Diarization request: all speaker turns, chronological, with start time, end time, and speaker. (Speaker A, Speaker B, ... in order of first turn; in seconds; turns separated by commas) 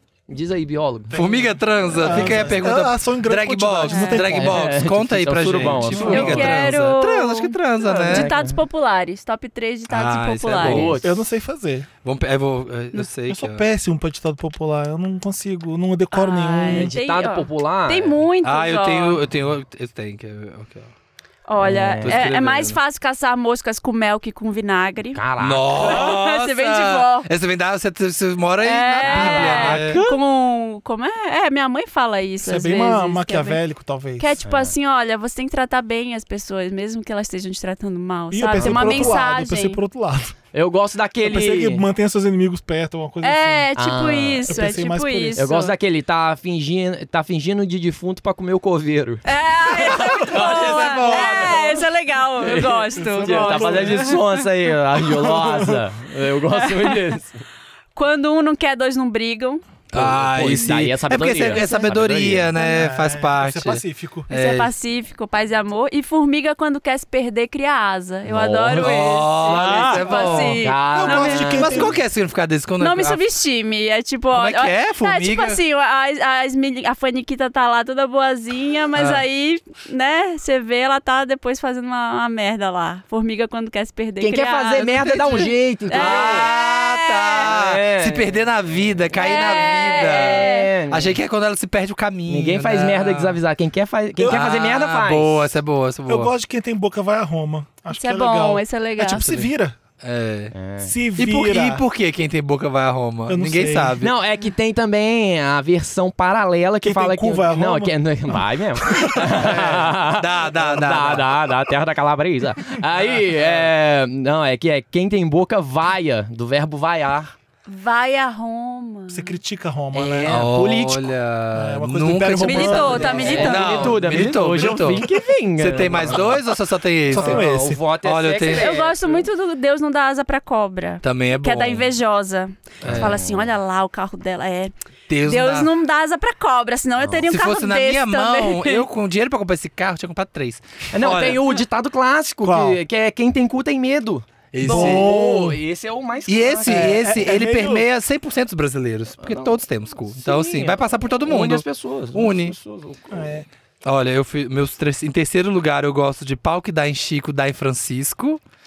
Speaker A: 0.3-1.2, Speaker B: 1.1-4.6, Speaker C: 1.1-8.3, Speaker A: 2.0-2.6, Speaker D: 3.9-4.2, Speaker A: 4.2-6.6, Speaker B: 5.7-6.5, Speaker D: 6.0-11.0, Speaker A: 8.1-8.6, Speaker C: 9.9-11.0, Speaker A: 10.6-11.2, Speaker B: 11.0-11.9, Speaker C: 12.0-13.6, Speaker B: 13.3-16.9, Speaker D: 16.1-19.2, Speaker A: 16.7-18.2, Speaker C: 18.4-20.9, Speaker D: 21.5-25.2, Speaker A: 21.6-22.3, Speaker C: 22.0-22.8, Speaker A: 25.1-26.1, Speaker C: 25.4-30.0, Speaker D: 25.8-27.3, Speaker D: 28.6-33.6, Speaker A: 29.0-30.2, Speaker B: 32.4-34.4, Speaker D: 34.2-39.8, Speaker A: 34.4-34.8, Speaker B: 38.3-40.4, Speaker A: 38.6-39.2, Speaker A: 40.5-41.9, Speaker B: 41.2-43.7, Speaker D: 43.2-45.7, Speaker A: 43.8-44.6, Speaker B: 44.5-45.5, Speaker A: 45.4-51.8, Speaker D: 49.2-54.2, Speaker C: 49.9-51.8, Speaker A: 52.4-57.4, Speaker B: 53.0-54.2, Speaker B: 55.0-55.8, Speaker D: 56.6-57.0, Speaker D: 58.0-59.6, Speaker C: 59.9-64.7, Speaker A: 59.9-62.5, Speaker D: 61.5-61.9, Speaker B: 62.6-64.3, Speaker D: 64.3-71.8, Speaker A: 68.3-71.8, Speaker C: 68.7-70.6, Speaker B: 70.9-72.0, Speaker C: 71.5-73.2, Speaker D: 72.8-87.5, Speaker C: 74.3-75.6, Speaker C: 79.0-79.2, Speaker A: 84.2-86.5, Speaker C: 85.0-93.4, Speaker A: 87.4-88.3, Speaker D: 89.1-90.7, Speaker A: 89.1-91.2, Speaker A: 92.3-95.5, Speaker B: 94.2-94.5, Speaker C: 94.2-96.3, Speaker B: 96.1-99.8, Speaker D: 97.9-99.5, Speaker C: 100.0-100.5, Speaker A: 100.5-100.9, Speaker B: 100.8-101.8, Speaker C: 101.2-104.1, Speaker B: 103.3-104.0, Speaker A: 104.0-117.3, Speaker B: 106.8-109.4, Speaker C: 109.3-111.3, Speaker C: 113.2-113.6, Speaker D: 117.7-119.3, Speaker B: 119.1-120.5, Speaker A: 119.9-121.1, Speaker C: 120.2-127.5, Speaker B: 121.5-123.9, Speaker D: 122.4-124.0, Speaker A: 122.9-126.4, Speaker B: 127.1-127.8, Speaker A: 127.1-129.3, Speaker C: 128.0-128.7, Speaker D: 128.5-134.7, Speaker C: 131.0-131.9, Speaker A: 132.8-133.5, Speaker C: 132.8-133.2, Speaker C: 135.1-135.7, Speaker D: 135.2-138.9, Speaker A: 137.0-137.3, Speaker C: 137.3-141.4, Speaker A: 140.9-147.1, Speaker B: 142.4-142.8, Speaker C: 144.5-145.2, Speaker B: 144.6-145.6, Speaker C: 146.3-152.6, Speaker B: 146.7-147.9, Speaker A: 149.2-149.6, Speaker A: 150.1-153.4, Speaker B: 153.1-153.5, Speaker C: 153.8-158.4